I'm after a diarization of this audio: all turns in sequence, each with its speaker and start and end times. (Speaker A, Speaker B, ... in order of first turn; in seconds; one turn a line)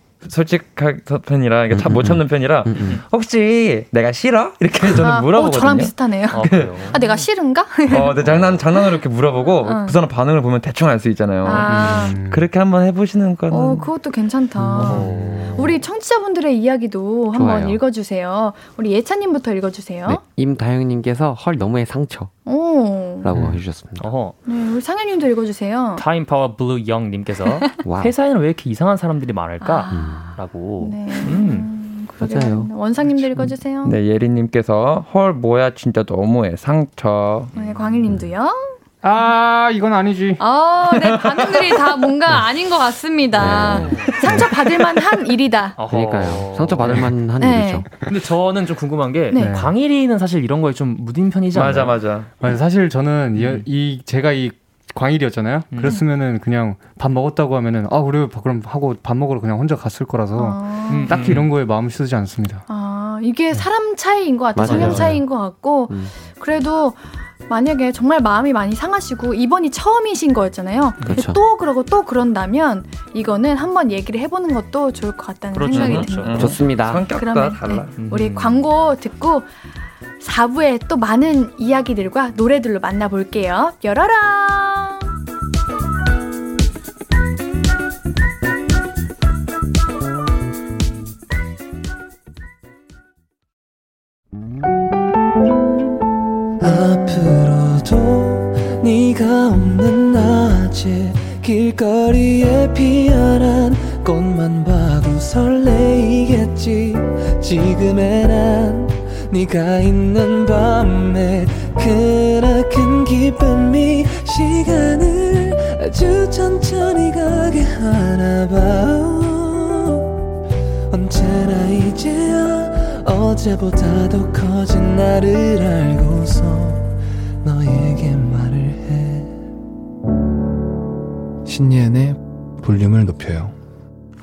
Speaker A: 0.2-6.8
Speaker B: 1.7-3.0
Speaker C: 4.9-9.0
Speaker D: 6.3-7.3
Speaker A: 7.9-13.9
Speaker C: 9.6-10.0
Speaker C: 11.4-12.2
Speaker E: 11.7-12.5
Speaker C: 13.5-20.2
Speaker E: 14.6-15.5
Speaker D: 14.8-15.8
Speaker B: 17.3-17.8
Speaker B: 20.1-22.3
Speaker C: 22.5-23.3
Speaker B: 23.2-24.1
Speaker E: 23.3-23.6
Speaker D: 24.0-24.4
Speaker C: 24.5-26.0
Speaker D: 26.0-31.7
Speaker B: 27.8-28.1
Speaker C: 29.6-34.0
Speaker B: 29.9-30.4
Speaker B: 32.2-32.7
Speaker A: 33.8-37.5
Speaker D: 37.5-38.2
Speaker C: 37.5-38.8
Speaker E: 39.0-40.4
Speaker C: 40.4-45.8
Speaker A: 41.0-41.7
Speaker B: 43.4-44.1
Speaker D: 43.5-44.1
Speaker D: 45.8-47.1
Speaker B: 45.9-47.9
Speaker C: 47.4-47.9
Speaker D: 48.1-52.0
Speaker C: 49.3-49.6
Speaker E: 49.4-49.7
Speaker A: 51.5-52.3
Speaker E: 52.4-62.6
Speaker D: 53.4-53.7
Speaker D: 55.7-56.0
Speaker C: 60.4-61.2
Speaker D: 60.9-61.5
Speaker C: 62.7-79.5
Speaker B: 64.5-65.2
Speaker D: 64.6-65.2
Speaker B: 65.9-66.1
Speaker B: 71.1-71.4
Speaker D: 75.5-76.5
Speaker A: 75.7-78.0
Speaker B: 76.4-77.1
Speaker D: 78.0-78.7
Speaker C: 80.2-85.0
Speaker F: 96.6-120.1
Speaker F: 120.9-126.9
Speaker F: 127.4-129.4
Speaker F: 131.4-133.6